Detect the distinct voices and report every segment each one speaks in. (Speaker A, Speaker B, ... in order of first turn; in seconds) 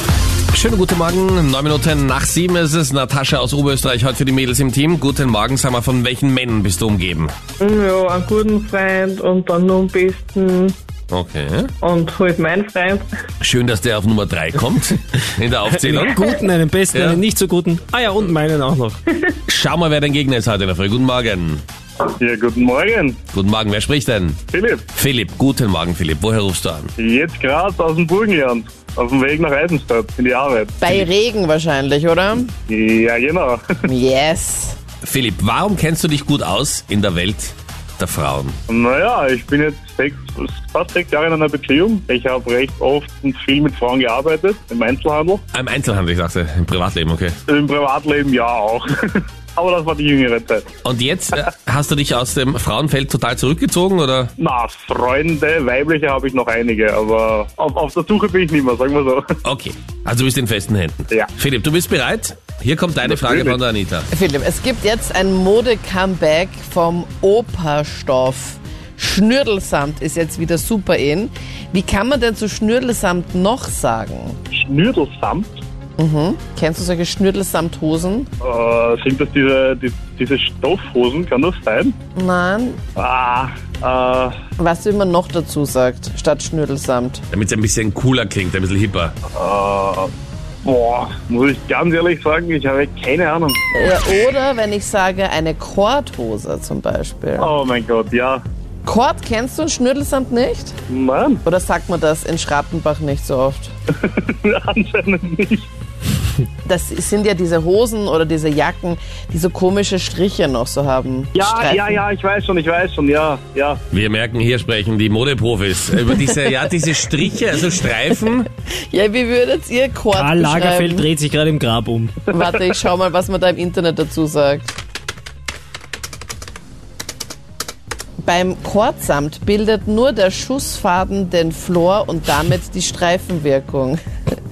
Speaker A: 0.5-7.3, 11.1-11.7, 13.4-16.2, 16.9-17.2, 19.5-21.6, 23.3-24.4, 24.9-26.9, 35.0-38.6, 45.5-47.4, 50.8-54.3, 59.5-64.1, 87.3-89.2, 113.9-118.5
Speaker B: 7.6-10.8, 11.8-13.1
Speaker C: 15.7-19.0, 120.1-122.2
Speaker D: 22.1-23.2, 24.5-24.9, 27.0-31.1, 32.7-33.9, 38.7-45.4, 47.5-50.7, 54.4-59.2, 63.0-63.6, 74.5-75.6, 78.4-82.0, 83.0-84.3, 89.3-90.1, 90.6-93.6, 97.4-98.4, 100.9-101.4, 103.9-105.7, 111.3-113.8
Speaker E: 30.8-32.5, 33.9-34.8, 64.1-74.4, 76.0-78.3, 82.2-82.8, 84.6-87.2, 93.8-97.5, 98.8-100.8, 101.5-103.7, 106.7-111.9, 118.9-121.1, 122.3-124.7, 128.2-134.0